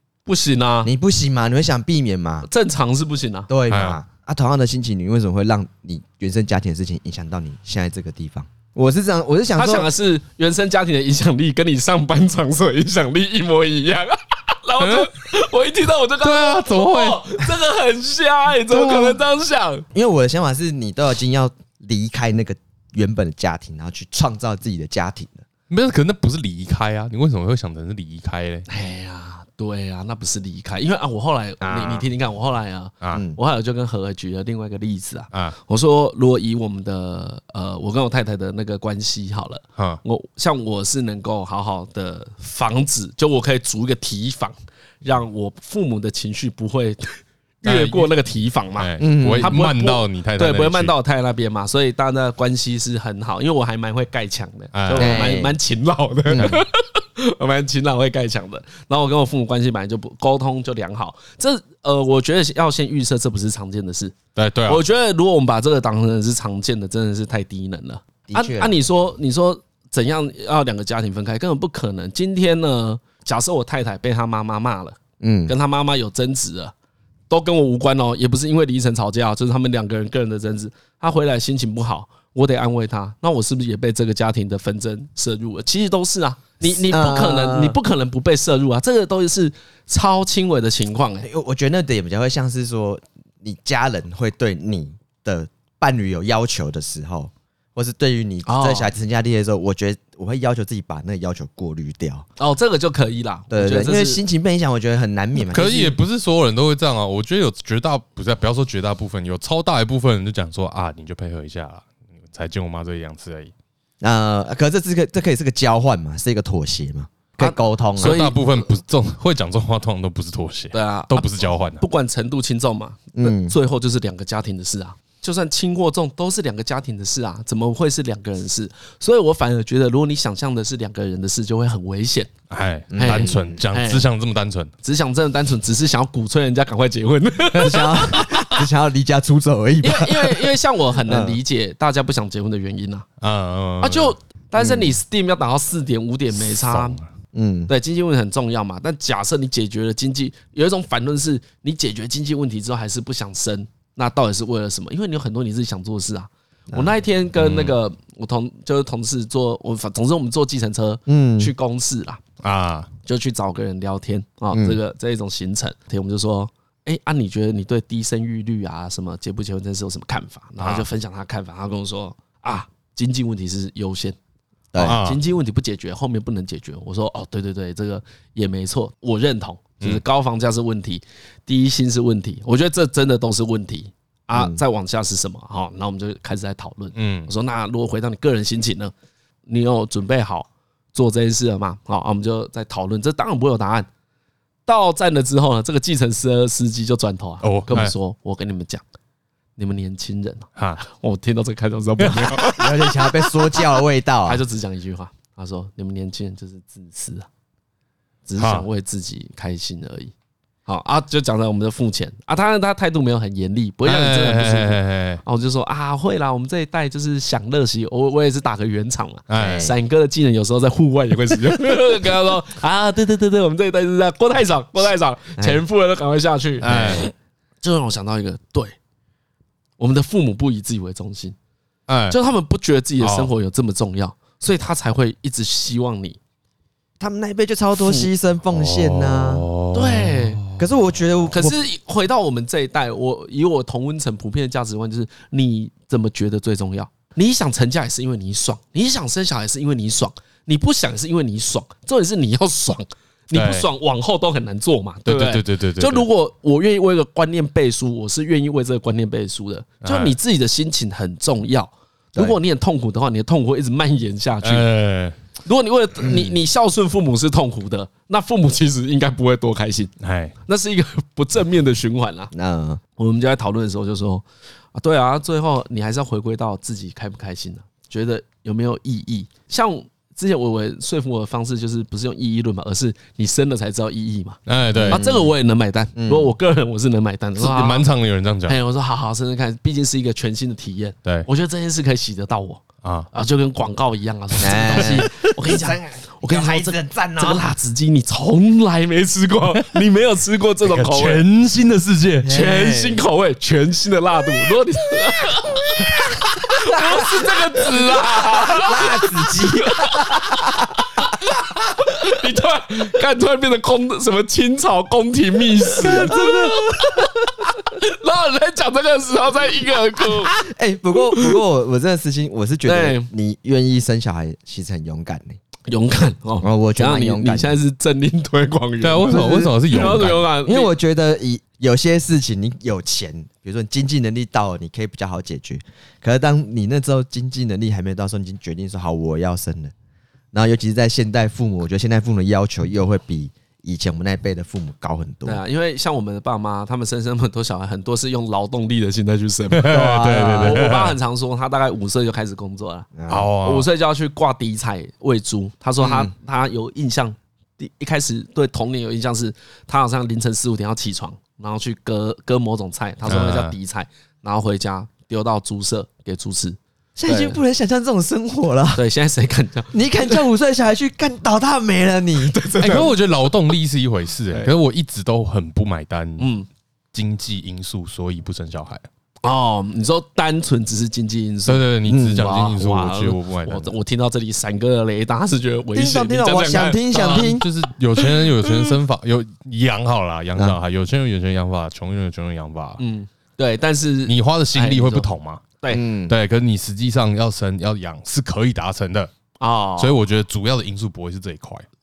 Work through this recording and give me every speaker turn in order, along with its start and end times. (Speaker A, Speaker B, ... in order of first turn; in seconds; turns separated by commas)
Speaker A: 0.2-0.9, Speaker B: 0.8-2.5, Speaker A: 2.4-3.5, Speaker B: 3.5-9.9, Speaker C: 3.7-4.0, Speaker A: 9.6-19.8, Speaker C: 14.8-15.1, Speaker C: 16.2-17.2, Speaker C: 18.7-19.1, Speaker B: 19.9-25.4, Speaker C: 25.7-28.6, Speaker A: 28.7-64.2, Speaker B: 31.6-32.0, Speaker C: 31.7-32.0, Speaker B: 33.1-33.4, Speaker C: 47.6-48.1, Speaker C: 48.8-50.9, Speaker B: 49.0-49.6, Speaker C: 54.7-55.3, Speaker B: 55.0-55.6, Speaker B: 56.3-56.6, Speaker C: 64.3-64.8, Speaker A: 64.7-76.7, Speaker B: 68.3-68.7, Speaker B: 75.2-75.5, Speaker A: 77.3-91.3, Speaker B: 86.6-87.8, Speaker B: 91.2-102.2, Speaker A: 98.4-98.9, Speaker A: 102.4-104.2, Speaker B: 103.5-106.0, Speaker C: 105.5-113.5, Speaker B: 114.0-118.2, Speaker A: 117.4-118.7, Speaker C: 118.0-121.8, Speaker A: 120.7-132.3, Speaker B: 123.1-123.5, Speaker C: 132.5-134.7, Speaker B: 132.9-133.6, Speaker A: 133.0-134.1, Speaker A: 134.8-138.6, Speaker B: 137.6-140.5, Speaker A: 139.8-143.1, Speaker B: 141.0-141.4, Speaker C: 143.2-144.1, Speaker A: 143.8-147.0, Speaker B: 144.6-144.9, Speaker C: 146.4-147.0, Speaker B: 147.3-147.7, Speaker A: 147.7-162.2, Speaker C: 157.4-157.8, Speaker B: 161.1-161.5, Speaker C: 162.4-162.9, Speaker A: 163.1-174.2, Speaker B: 164.5-164.8, Speaker C: 170.6-170.8, Speaker B: 174.7-175.0, Speaker C: 174.8-175.2, Speaker A: 174.8-188.9, Speaker B: 184.3-184.6, Speaker C: 186.9-187.3, Speaker A: 189.5-193.9, Speaker A: 194.7-198.8, Speaker C: 197.4-197.9, Speaker A: 199.6-203.3, Speaker C: 202.0-202.3, Speaker B: 202.4-204.4, Speaker A: 204.2-207.3, Speaker A: 208.3-210.1, Speaker C: 208.4-208.6, Speaker A: 210.7-227.1, Speaker C: 213.8-215.2, Speaker C: 219.3-219.7, Speaker B: 219.3-219.8, Speaker C: 226.6-227.1, Speaker B: 226.7-227.0, Speaker A: 227.6-228.8, Speaker A: 229.8-231.3, Speaker C: 231.9-232.2, Speaker A: 232.1-236.2, Speaker C: 233.0-233.3, Speaker B: 237.0-239.4, Speaker C: 238.5-240.6, Speaker A: 239.7-240.4, Speaker B: 240.6-241.6, Speaker A: 241.3-264.7, Speaker C: 253.3-253.7, Speaker C: 255.1-256.1, Speaker C: 259.8-260.1, Speaker C: 264.4-265.1, Speaker A: 265.4-269.9, Speaker B: 266.0-266.4, Speaker C: 270.0-270.3, Speaker A: 270.5-272.3, Speaker B: 272.3-272.8, Speaker A: 273.0-274.2, Speaker A: 274.7-287.9, Speaker C: 284.4-285.0, Speaker B: 284.7-285.3, Speaker B: 285.9-286.3, Speaker C: 287.4-288.6, Speaker A: 288.4-301.2, Speaker C: 292.8-293.1, Speaker B: 294.4-297.4, Speaker C: 300.6-302.3, Speaker B: 302.2-303.0, Speaker A: 302.2-310.2, Speaker B: 306.6-307.2, Speaker B: 307.9-311.0, Speaker A: 311.8-320.4, Speaker B: 315.8-317.3, Speaker B: 320.3-325.4, Speaker A: 322.6-323.1, Speaker A: 325.7-330.7, Speaker B: 326.4-327.6, Speaker C: 328.8-330.3, Speaker B: 329.1-339.7, Speaker B: 340.3-345.4, Speaker A: 345.2-367.4, Speaker C: 349.5-351.0, Speaker B: 349.6-350.7, Speaker B: 352.9-353.3, Speaker C: 353.1-353.7, Speaker B: 355.8-356.1, Speaker C: 363.1-363.5, Speaker B: 366.9-368.8, Speaker A: 368.8-369.7, Speaker B: 369.7-372.4, Speaker A: 372.3-372.9, Speaker C: 372.6-376.3, Speaker A: 376.2-376.5, Speaker C: 376.9-378.9, Speaker A: 379.2-387.4, Speaker C: 381.4-383.7, Speaker B: 381.9-382.3, Speaker B: 385.7-387.4, Speaker C: 386.9-392.8, Speaker A: 388.2-388.7, Speaker A: 392.8-395.1, Speaker C: 394.1-395.4, Speaker B: 395.7-396.1, Speaker C: 396.1-399.1, Speaker A: 399.4-399.9, Speaker C: 399.8-401.6